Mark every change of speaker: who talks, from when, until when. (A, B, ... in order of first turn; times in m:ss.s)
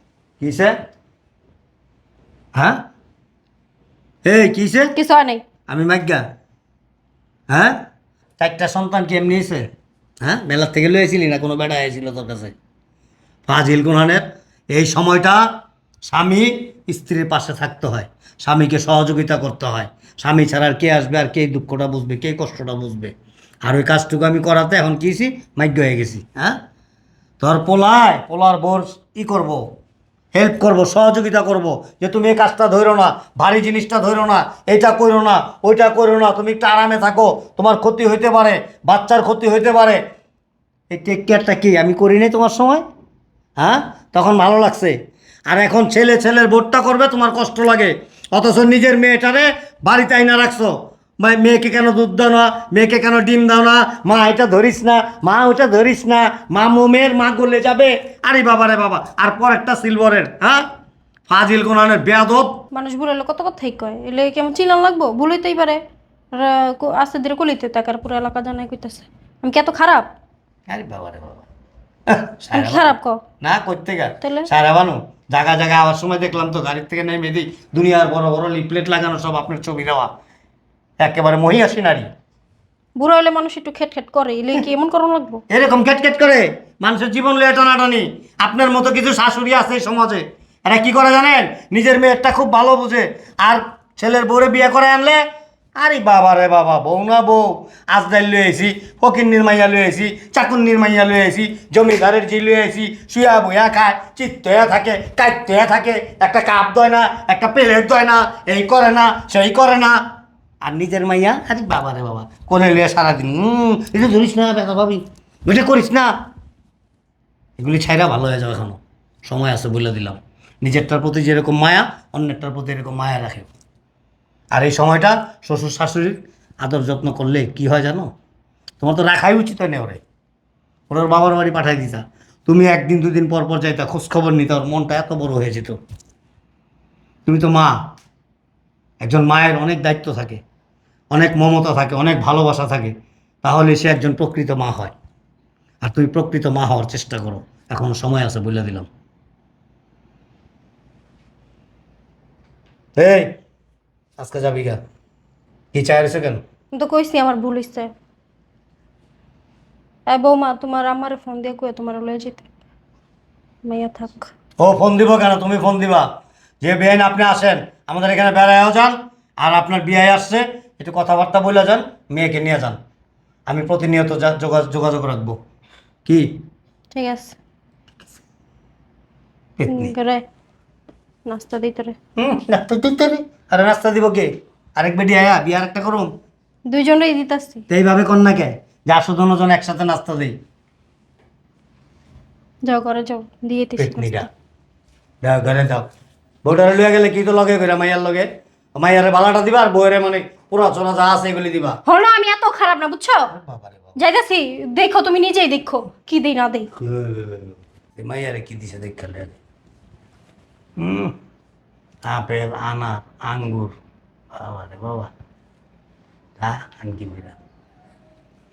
0:00.4-0:00.7 A
0:02.5-0:02.8 A
0:04.2-0:04.9 A
0:05.0-0:05.4 B
0:05.7-0:06.2 A
0:07.5-0:07.8 A
0:08.4-0:09.7 A
0:10.2-0:12.5 A
0:13.5-0:15.4 A
0:16.0-0:23.1 A
0:23.6-0:26.6 A
0:27.4-0:29.6 A
0:30.3-0:40.0 A
0:40.9-0:42.8 A
0:43.6-0:45.0 A
0:45.5-1:00.7 A
1:01.3-1:02.6 A
1:02.7-1:05.8 B
1:06.3-1:10.1 B
1:10.7-1:11.4 A
1:12.1-1:20.1 A
1:12.5-1:13.2 B
1:14.2-1:14.5 B
1:21.0-1:22.1 A
1:23.0-1:25.4 B
1:25.5-1:35.2 A
1:35.8-1:50.0 A
1:50.6-1:56.1 A
1:57.6-2:03.5 A
2:04.5-2:08.1 A
2:08.8-2:10.0 A
2:10.9-2:15.8 A
2:17.2-2:17.9 A
2:19.0-2:20.4 A
2:21.1-2:24.9 A
2:25.8-2:28.9 A
2:33.0-2:33.4 A
2:34.2-2:34.8 A
2:35.7-2:36.4 A
2:36.7-2:37.9 B
2:40.1-2:42.5 B
2:43.6-2:44.3 B
2:44.6-2:46.1 A
2:46.6-2:52.8 A
2:53.5-2:55.4 A
2:56.0-2:56.4 A
2:56.9-2:57.4 B
2:59.6-2:59.9 A
2:59.7-3:00.2 B
3:01.3-3:02.0 B
3:02.2-3:06.1 A
3:06.7-3:07.6 B
3:07.7-3:10.4 A
3:12.6-3:14.3 B
3:13.8-3:14.3 A
3:15.2-3:15.9 A
3:16.4-3:21.8 A
3:21.8-3:23.3 B
3:23.3-3:23.9 A
3:24.0-3:26.7 B
3:26.8-3:29.4 A
3:30.8-3:31.1 A
3:32.0-3:33.7 A
3:34.3-3:35.1 A
3:36.4-3:37.4 A